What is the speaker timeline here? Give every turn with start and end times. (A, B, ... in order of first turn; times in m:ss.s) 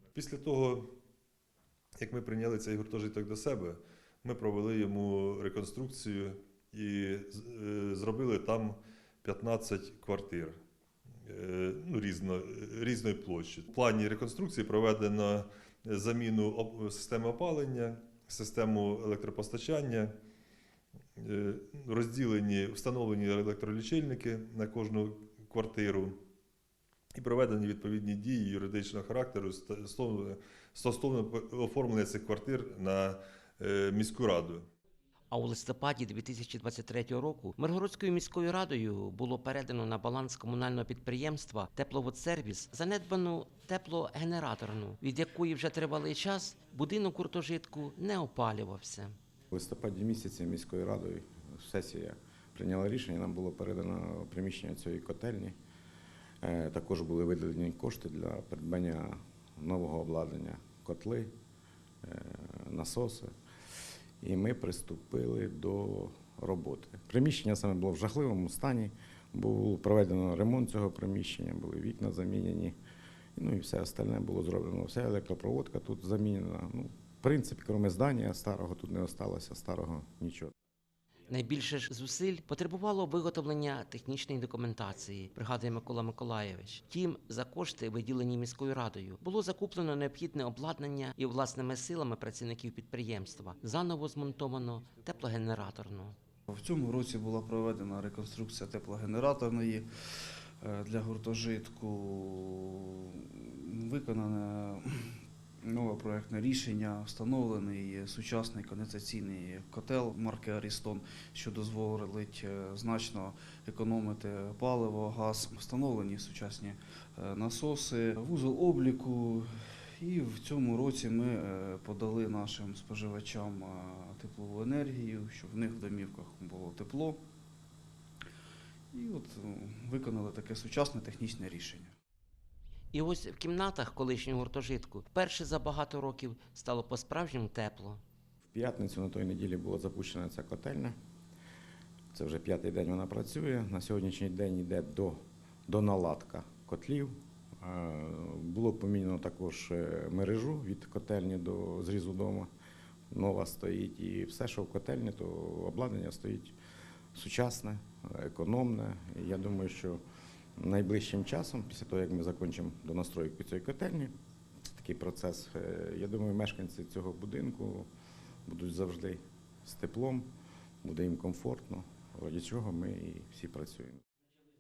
0:00.1-0:01.0 A
0:02.0-0:10.6 A
0:11.2-0:20.2 A
0:21.2-0:26.2 A
0:27.2-0:34.7 A
0:35.3-0:49.2 B
0:49.5-0:55.6 C
0:56.4-1:01.3 C
1:02.0-1:03.3 C
1:04.2-1:12.8 C
1:13.4-1:20.5 C
1:21.3-1:36.2 B
1:36.5-1:39.9 D
1:40.6-2:07.2 D
2:08.9-2:11.9 D
2:12.9-2:18.0 B
2:18.5-2:21.0 C
2:22.1-2:32.5 C
2:33.1-2:36.6 C
2:37.1-2:40.0 C
2:40.6-2:44.1 C
2:44.7-2:47.9 C
2:48.5-2:50.3 C
2:50.8-2:54.0 C